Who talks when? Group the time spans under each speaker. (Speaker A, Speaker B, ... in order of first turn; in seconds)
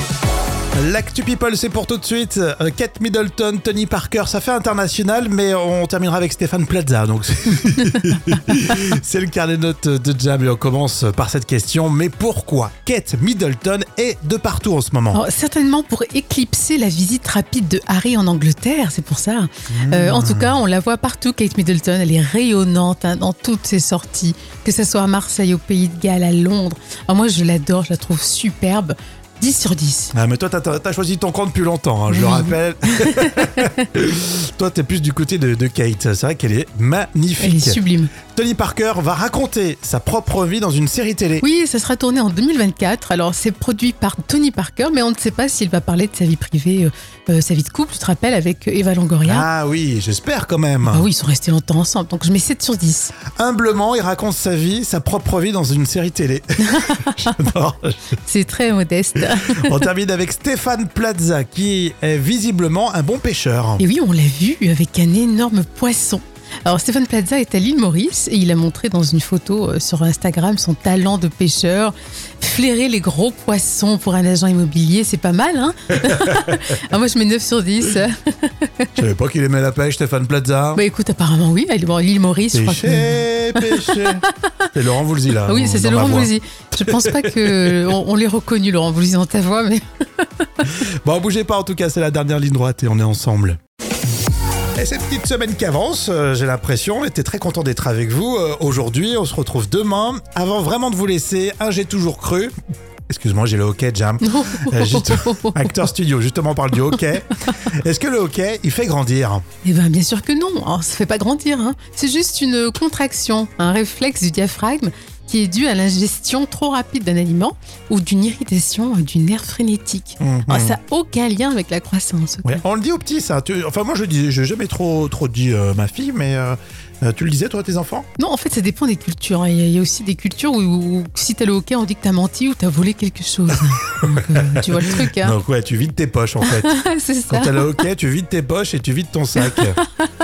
Speaker A: 0.8-15.2, 19.7-20.5, 30.1-41.4, 49.2-51.0, 53.4-58.0, 59.5-63.8, 79.0-80.8, 82.5-86.3, 86.8-87.9, 91.0-93.6, 94.8-102.5, 103.1-109.4, 120.2-120.8, 122.5-128.1, 134.3-136.8, 137.3-139.8
Speaker B: 15.1-30.1, 32.1-32.5, 33.1-33.5, 37.4-38.1, 41.4-49.5, 50.9-53.1, 56.7-57.3, 58.2-59.8, 63.8-78.9, 80.8-84.3, 85.4-90.5, 104.2-105.7, 109.6-122.6, 128.2-135.3, 136.4-137.8